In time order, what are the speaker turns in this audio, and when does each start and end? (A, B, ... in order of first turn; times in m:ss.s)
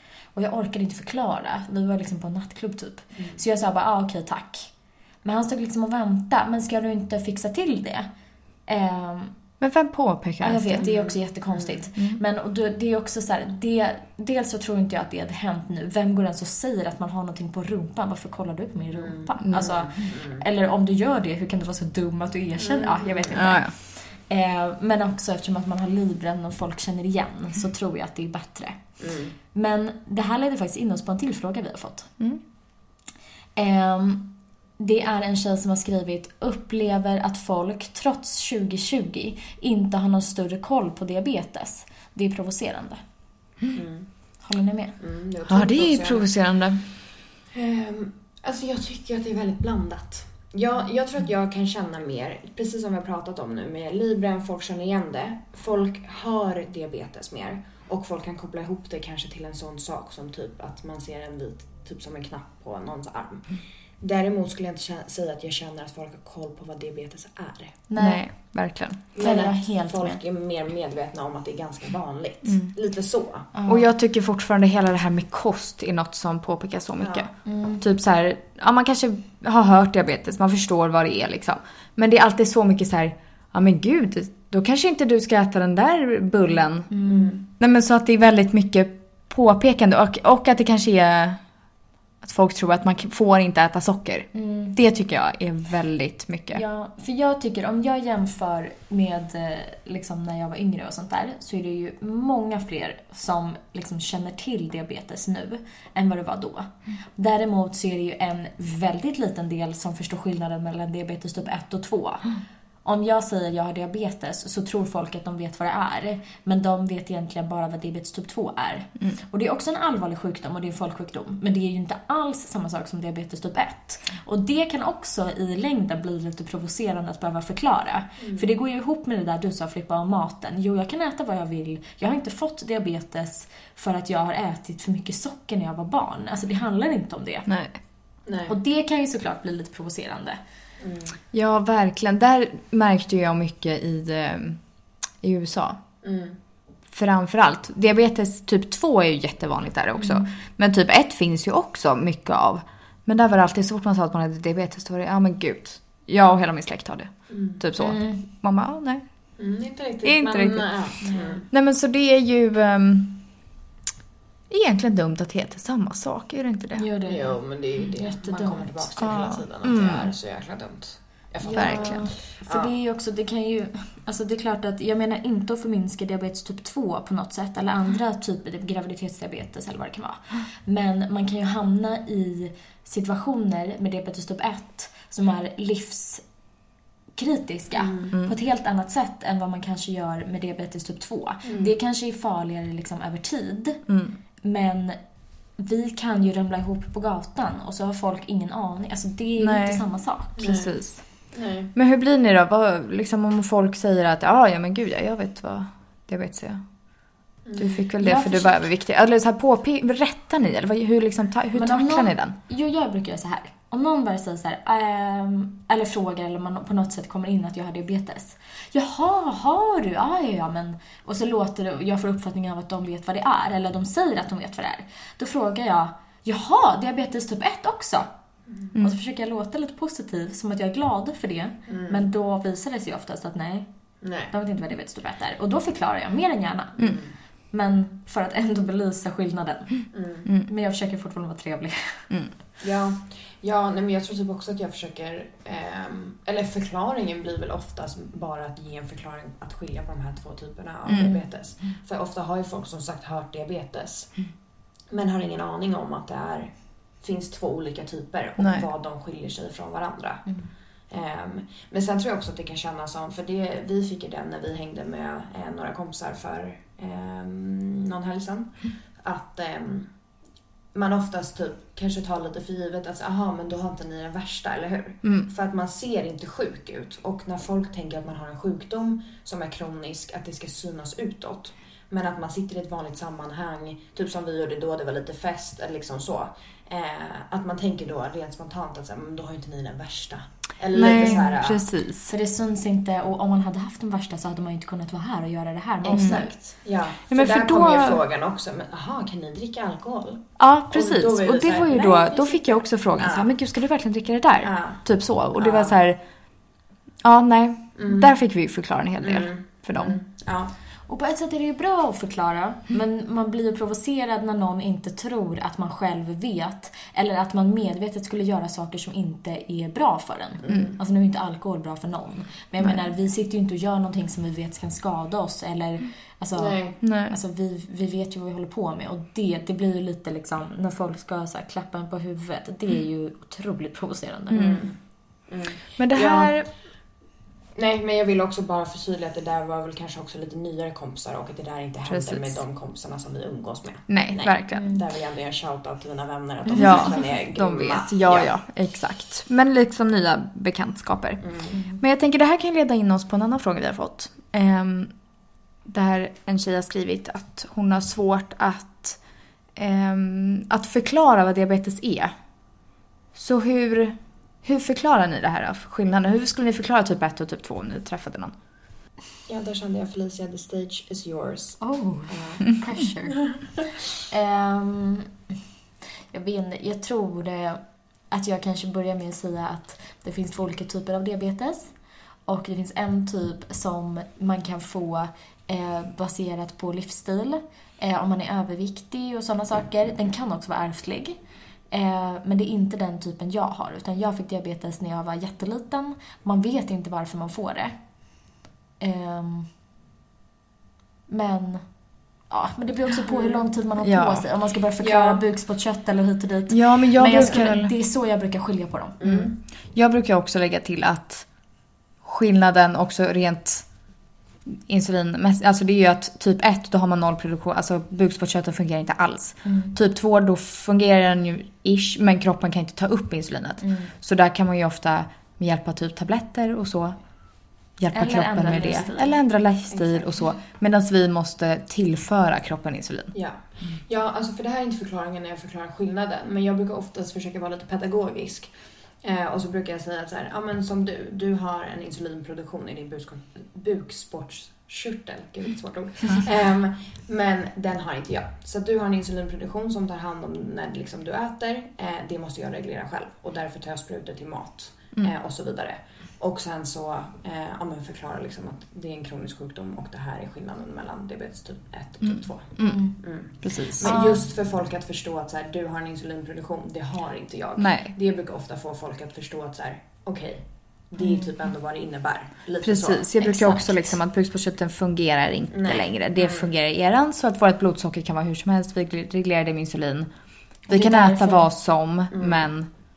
0:00.4-0:08.1 A
0:08.6-0:09.4 A
0:09.6-0:10.9 B
0:10.4-0:29.0 A
0:10.8-0:11.9 C
0:18.9-0:20.4 C
0:19.4-0:19.8 B
0:22.6-0:23.5 C
0:23.3-0:23.7 B
0:29.0-0:29.4 C
0:29.5-0:32.1 A
0:33.6-0:43.0 A
0:43.7-0:44.4 C
0:44.4-0:45.0 A
0:45.0-1:07.8 C
0:45.5-0:46.8 B
1:07.9-1:08.3 A
1:08.0-1:09.0 B
1:09.1-1:13.5 C
1:09.2-1:10.2 A
1:12.4-1:12.7 B
1:13.5-1:13.9 A
1:13.7-1:27.0 B
1:17.0-1:17.3 C
1:17.4-1:17.8 A
1:26.9-1:27.4 A
1:27.1-1:27.4 C
1:27.5-1:31.4 B
1:32.2-1:36.6 B
1:34.3-1:34.8 A
1:36.5-2:17.5 A
2:08.2-2:08.5 C
2:17.5-2:17.8 B
2:18.3-2:18.5 C
2:18.5-2:20.4 A
2:20.8-2:21.2 C
2:21.3-2:24.6 B
2:25.2-2:25.8 B
2:26.0-2:26.4 C
2:26.9-2:39.4 B
2:30.0-2:30.3 A
2:37.3-2:37.6 C
2:37.8-2:38.2 A
2:39.4-2:41.5 C
2:40.0-2:43.3 B
2:41.0-2:41.4 A
2:44.5-2:46.9 B
2:46.8-2:49.2 A
2:47.0-2:52.7 C
2:49.0-2:50.1 B
2:51.4-3:06.3 A
2:51.5-2:52.1 B
3:07.1-3:13.9 A
3:07.7-3:08.2 C
3:11.4-3:11.7 C
3:13.9-3:14.2 B
3:14.4-3:15.0 A
3:15.6-3:20.6 A
3:19.4-3:26.7 B
3:20.4-3:21.7 C
3:27.4-3:27.9 C
3:27.6-3:32.4 B
3:28.0-3:28.6 A
3:31.5-3:48.1 A
3:48.7-4:02.1 A
3:51.7-3:52.0 C
3:54.0-3:54.3 C
3:56.8-3:57.1 C
3:59.9-4:00.3 C
4:02.1-4:02.4 B
4:02.6-4:14.3 C
4:10.9-4:11.2 B
4:14.9-4:29.9 C
4:18.4-4:18.7 B
4:30.7-4:51.6 C
4:50.7-4:52.1 B
4:50.9-4:51.3 A
4:52.0-4:56.3 A
4:55.8-5:03.3 C
4:55.9-4:58.0 B
5:00.4-5:06.0 B
5:04.4-5:05.8 C
5:07.0-5:10.0 B
5:07.8-5:08.2 C
5:09.0-5:10.5 C
5:10.9-5:34.7 A
5:20.4-5:20.8 C
5:26.4-5:26.8 C
5:26.8-5:27.2 B
5:34.3-5:34.7 B
5:34.4-5:36.7 C
5:35.8-5:36.5 B
5:37.6-5:48.3 C
5:41.9-5:42.4 B
5:43.9-5:44.7 B
5:44.5-5:44.8 A
5:46.5-5:47.0 A
5:46.6-5:54.9 B
5:51.2-5:51.6 C
5:51.5-5:51.8 A
5:55.6-5:59.0 B
5:59.6-6:02.1 B
6:03.1-6:08.3 B
6:09.3-6:12.6 C
6:11.6-6:15.4 A
6:16.1-6:31.2 A
6:31.7-6:37.8 A
6:38.8-6:39.5 A
6:41.1-6:49.0 A
6:43.1-6:43.5 C
6:43.8-6:44.3 B
6:44.8-6:45.2 C
6:46.5-6:47.7 B
6:49.0-6:49.4 C
6:49.0-6:51.4 B
6:52.0-6:53.8 B
6:54.4-7:07.1 B
6:59.4-6:59.7 A
7:03.6-7:03.9 A
7:07.8-7:13.2 B
7:07.9-7:09.2 A
7:08.6-7:10.2 C
7:13.1-7:53.4 C
7:42.0-7:44.0 B
7:42.6-7:43.0 A
7:43.8-7:44.2 A
7:47.6-7:47.9 B
7:51.0-7:51.3 A
7:52.6-8:00.1 B
7:53.2-7:53.9 A
7:55.5-7:56.5 C
8:00.6-8:02.7 B
8:00.7-8:01.5 A
8:02.1-8:02.5 C